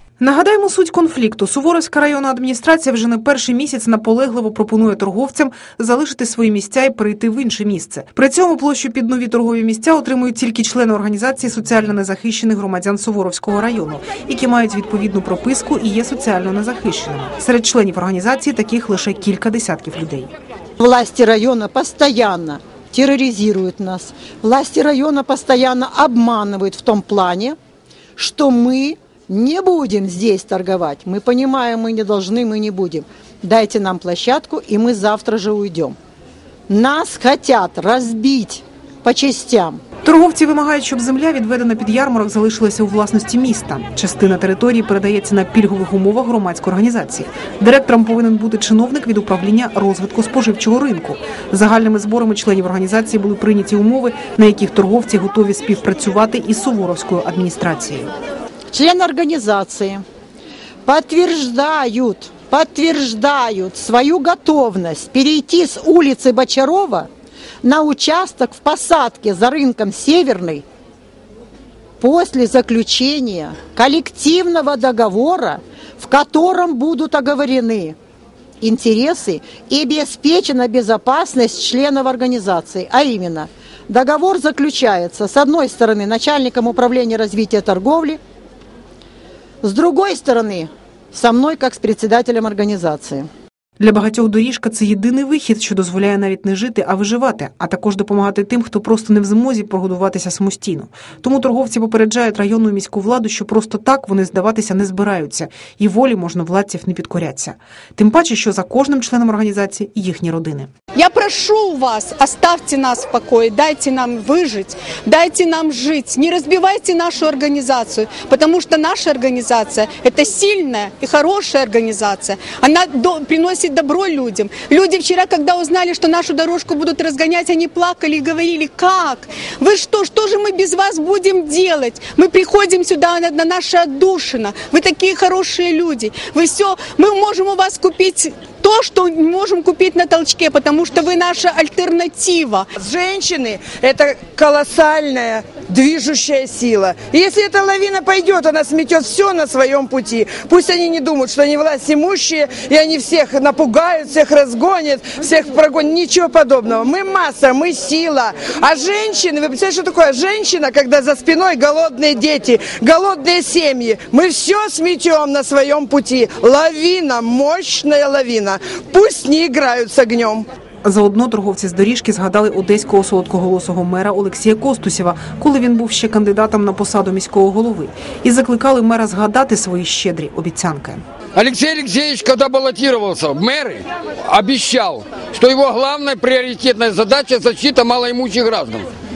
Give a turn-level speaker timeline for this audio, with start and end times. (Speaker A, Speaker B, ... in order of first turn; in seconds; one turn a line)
Speaker A: 0.2-20.3
Speaker B: 20.8-27.6
Speaker B: 28.2-36.0
Speaker B: 36.7-39.8
Speaker A: 40.0-58.1
Speaker B: 58.7-60.0
Speaker B: 60.9-67.1
Speaker B: 67.6-70.6
Speaker B: 72.0-77.9
Speaker B: 78.6-88.2
Speaker B: 89.6-93.3
Speaker A: 93.8-110.7
Speaker C: 110.9-142.7
Speaker D: 142.8-170.5
Speaker A: 170.8-181.0
Speaker E: 181.3-188.9